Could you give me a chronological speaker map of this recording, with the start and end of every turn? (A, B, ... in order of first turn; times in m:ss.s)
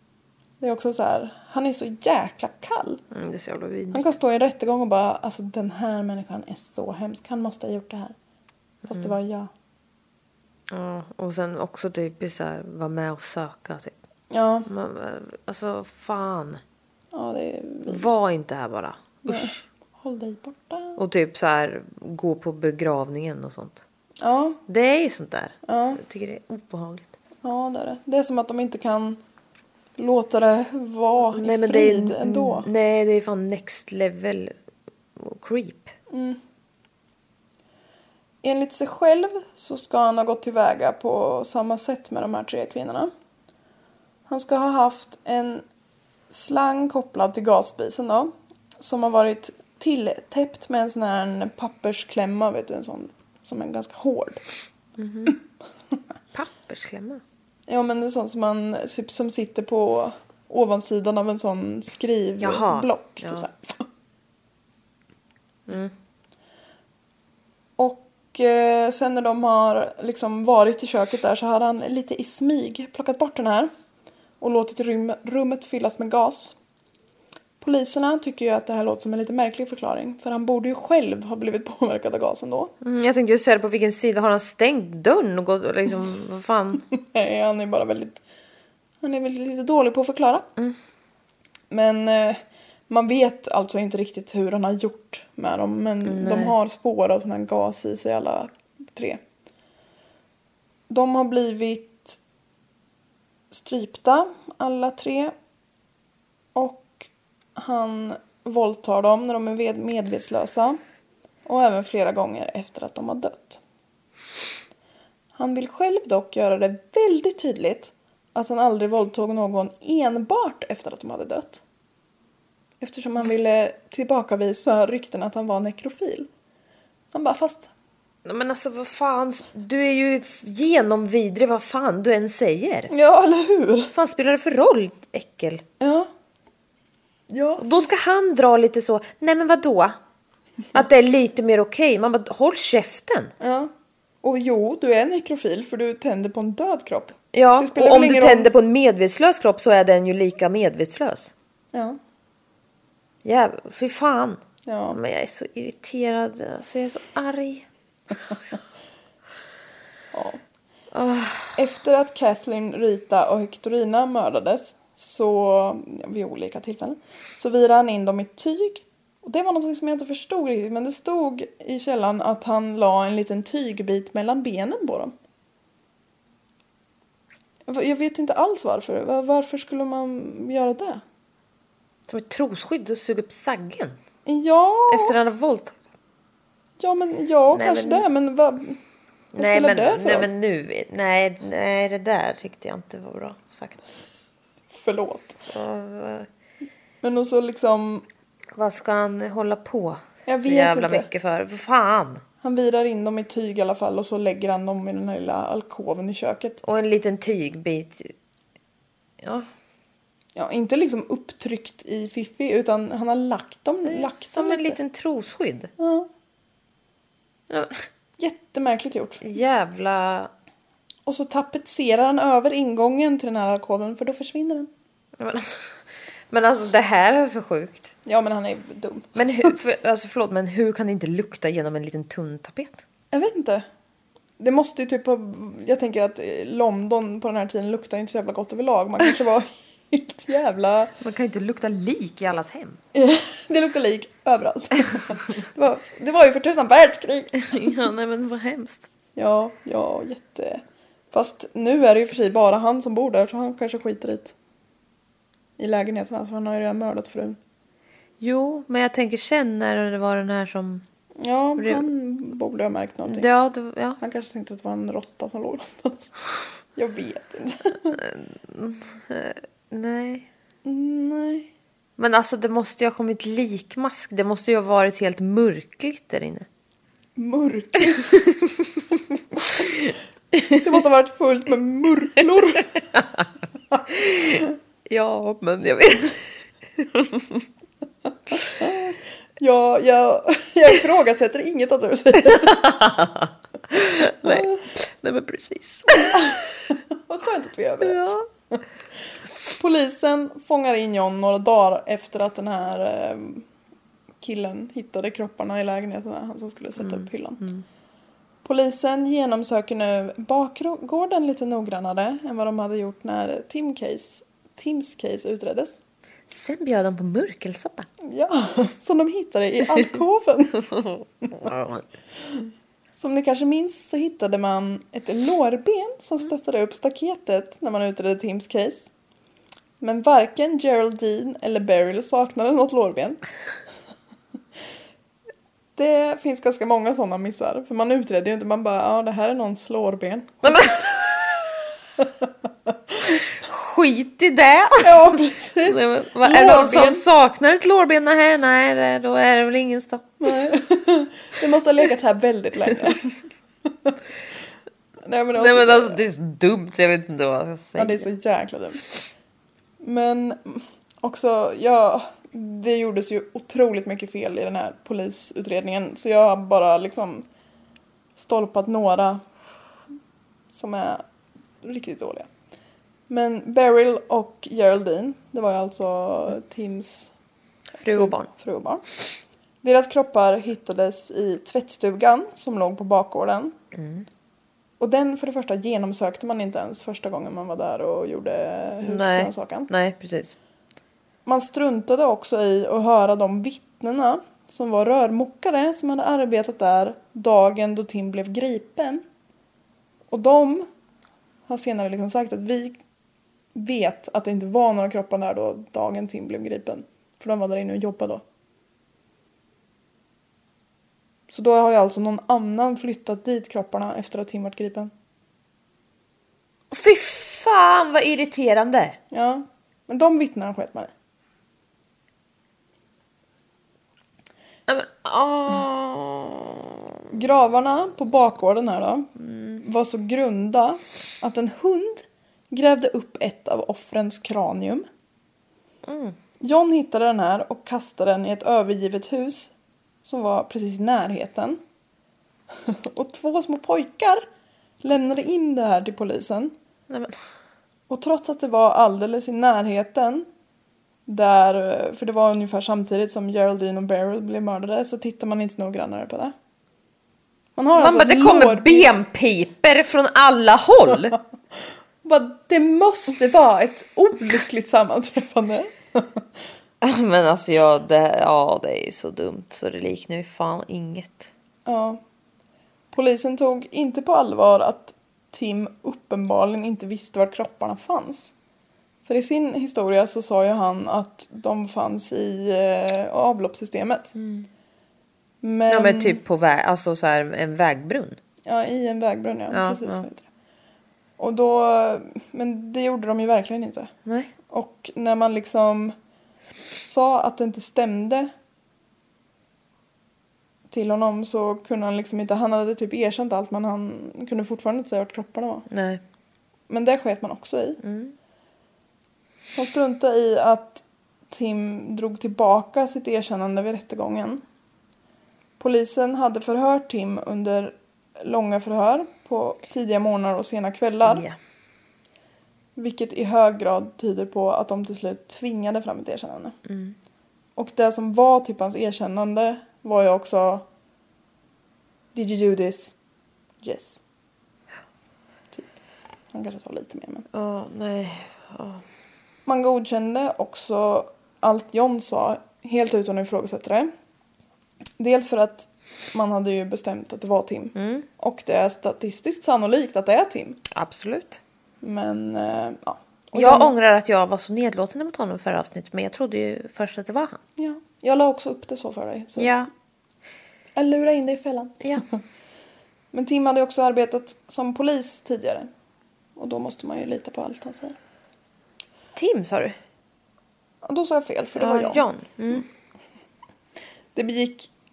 0:00.6-0:03.0 A
0:03.1-0:04.0 B
0:03.9-0:08.1 A
0:08.9-0:09.1 B
0:08.9-0:09.5 A
0:10.7-0:13.9 B
0:14.3-0:14.7 A
0:14.6-0:16.6 B
0:17.1-0:18.0 A
0:17.8-0:19.6 B
0:19.2-0:21.0 A
0:21.0-0:23.8 B
0:24.2-0:24.6 A
0:24.7-0:27.1 B
0:25.6-0:26.0 A
0:27.4-0:29.2 A
0:30.0-0:32.7 A
0:31.3-0:34.5 B
0:35.2-0:35.9 B
0:36.1-0:36.4 A
0:38.4-0:43.1 A
0:44.3-0:45.6 A
0:46.3-0:54.4 A
0:55.0-0:55.4 B
0:56.3-0:57.2 B
0:57.7-1:03.8 A
1:02.4-1:03.5 B
1:05.7-1:05.9 B
1:07.8-1:13.7 A
1:14.4-1:16.6 A
1:17.6-1:22.7 A
1:22.8-1:26.8 B
1:26.9-1:28.2 A
1:29.0-1:30.5 A
1:31.7-1:39.2 A
1:36.0-1:36.5 B
1:40.9-1:42.2 A
1:43.5-1:45.3 A
1:46.5-1:50.8 A
1:51.4-1:53.6 A
1:55.3-2:01.6 A
2:02.8-2:06.3 A
2:07.1-2:07.7 A
2:08.2-2:12.9 B
2:12.9-2:13.9 A
2:13.9-2:15.6 B
2:15.8-2:16.1 A
2:17.3-2:17.8 A
2:17.6-2:20.0 B
2:20.7-2:23.3 B
2:23.4-2:28.5 A
2:27.3-2:31.3 B
2:31.7-2:32.0 A
2:33.2-2:34.4 B
2:34.6-2:35.0 A
2:34.9-2:37.7 B
2:40.1-2:40.4 A
2:40.9-2:41.6 B
2:41.6-2:55.1 A
2:57.7-3:01.0 A
3:02.1-3:04.0 B
3:04.2-3:05.2 A
3:04.9-3:05.8 B
3:06.8-3:08.8 A
3:07.5-3:08.0 B
3:09.3-3:13.8 B
3:09.4-3:10.3 A
3:14.7-3:15.5 A
3:15.5-3:16.3 B
3:17.0-3:18.0 A
3:18.5-3:22.2 B
3:20.3-3:21.1 A
3:22.4-3:26.6 A
3:26.6-3:28.1 B
3:29.2-3:29.5 B
3:30.3-3:34.8 A
3:33.8-3:35.7 B
3:35.8-3:36.1 A
3:37.5-3:37.8 B
3:38.2-3:39.2 A
3:39.2-3:40.3 B
3:41.0-3:44.7 A
3:45.2-3:47.9 B
3:48.0-3:49.5 A
3:49.2-3:52.8 B
3:53.1-3:53.6 A
3:54.4-4:00.9 A
4:01.0-4:02.8 B
4:02.9-4:07.7 A
4:07.4-4:08.8 B
4:09.2-4:14.3 A
4:15.6-4:17.4 A
4:18.2-4:20.8 B
4:21.2-4:23.3 A
4:21.6-4:21.8 B
4:23.1-4:24.0 B
4:24.0-4:26.1 A
4:26.8-4:28.0 A
4:27.9-4:30.3 B
4:30.6-4:31.5 A
4:32.0-4:36.4 B
4:37.2-4:38.2 A
4:38.0-4:40.6 B
4:40.6-4:42.7 A
4:42.9-4:43.2 B
4:43.9-4:47.4 B
4:48.6-4:52.7 A
4:52.3-4:56.4 B
4:54.2-4:54.6 A
4:56.1-4:58.6 A
4:57.8-4:58.2 B
4:59.4-5:03.4 A
5:04.2-5:07.4 A
5:06.8-5:07.6 B
5:08.4-5:15.8 A
5:16.3-5:17.9 B
5:18.0-5:20.6 A
5:20.7-5:21.8 B
5:22.9-5:28.9 A
5:29.8-5:33.2 A
5:35.8-5:40.8 A
5:40.4-5:41.6 B
5:43.4-5:50.1 B
5:44.8-5:47.0 A
5:50.2-5:53.2 A
5:55.0-5:56.0 A
5:55.4-5:58.0 B
5:57.8-5:58.8 A
5:59.8-6:07.2 A
6:08.2-6:09.2 A
6:10.5-6:11.0 A
6:11.6-6:12.3 A
6:13.1-6:17.1 A
6:17.8-6:18.3 B
6:17.8-6:18.8 A
6:19.6-6:23.6 A
6:23.7-6:24.0 B
6:24.8-6:29.7 A
6:28.8-6:30.3 B
6:31.2-6:39.0 A
6:40.1-6:40.7 A
6:41.5-6:42.8 A
6:43.5-6:48.2 A
6:51.3-6:54.9 A
6:56.7-6:59.0 B
6:59.1-7:00.9 A
7:04.7-7:06.8 B
7:07.1-7:09.1 A
7:09.2-7:09.6 B
7:09.6-7:14.9 A
7:15.8-7:16.2 B
7:16.4-7:19.5 A
7:20.0-7:21.6 A
7:22.5-7:24.3 A
7:24.8-7:26.5 A
7:27.9-7:30.3 A
7:31.1-7:36.3 A
7:37.6-7:38.9 A
7:37.7-7:41.2 B
7:42.0-7:46.2 A
7:46.8-7:51.3 B
7:51.6-7:52.0 A
7:52.9-7:58.3 A
7:59.0-8:04.1 A
8:04.2-8:04.5 B
8:05.4-8:06.2 A
8:05.7-8:08.2 B
8:08.4-8:10.2 A
8:09.5-8:10.0 B
8:11.2-8:13.9 A
8:14.0-8:14.3 B
8:14.5-8:16.0 A
8:16.8-8:18.3 A
8:20.7-8:25.6 A
8:25.7-8:26.0 B
8:26.7-8:27.8 A
8:27.8-8:28.1 B
8:29.5-8:34.4 A
8:35.6-8:41.2 A
8:41.0-8:41.4 B
8:42.8-8:46.6 A
8:46.7-8:46.9 B
8:47.6-8:50.6 A
8:52.1-8:52.9 A
8:53.6-8:54.0 A
8:56.3-8:57.2 A
8:57.3-8:58.8 B
8:59.4-9:03.9 A
9:05.0-9:10.6 A
9:07.8-9:08.0 B
9:10.7-9:11.4 B
9:11.8-9:13.7 A
9:13.3-9:17.4 B
9:17.6-9:19.5 A
9:19.4-9:19.7 B
9:20.8-9:21.8 A
9:21.8-9:22.0 B
9:23.1-9:25.7 A
9:26.4-9:28.0 A
9:29.2-9:29.8 B
9:30.8-9:32.0 A
9:31.6-9:32.6 B
9:34.1-9:34.7 A